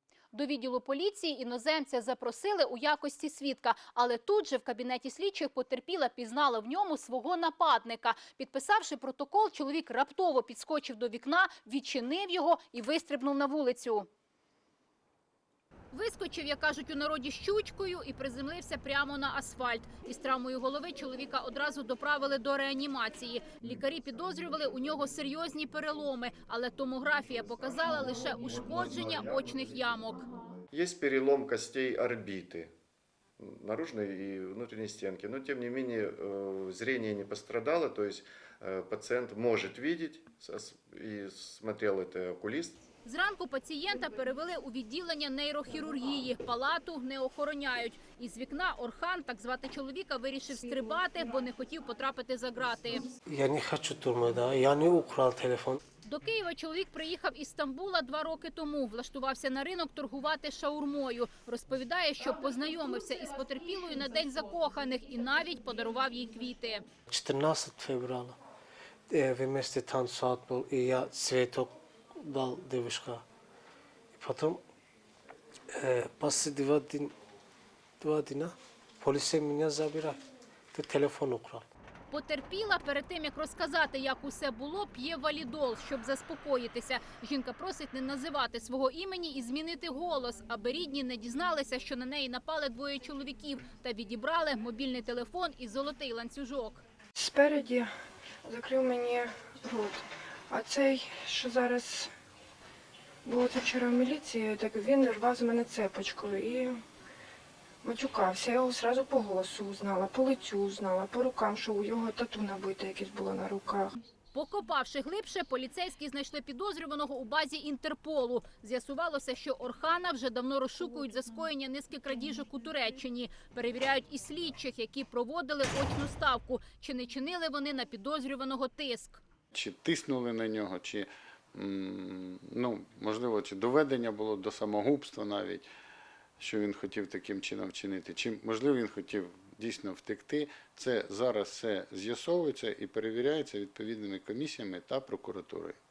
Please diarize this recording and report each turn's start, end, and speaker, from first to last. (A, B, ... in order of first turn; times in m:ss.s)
0:00.3-0:14.1 A
0:15.9-0:30.3 A
0:30.7-0:32.7 B
0:33.4-0:42.8 B
0:43.0-0:53.0 A
0:53.2-0:55.8 C
0:56.0-1:06.8 A
1:07.1-1:08.4 C
1:09.1-1:13.2 C
1:14.1-1:14.6 C
1:15.7-1:17.1 C
1:18.0-1:20.2 C
1:20.7-1:21.6 C
1:22.1-1:36.8 A
1:37.2-1:37.9 D
1:38.4-1:42.1 D
1:43.2-1:46.8 D
1:47.8-1:53.9 D
1:54.3-2:09.2 A
2:09.5-2:15.6 E
2:16.4-2:25.8 E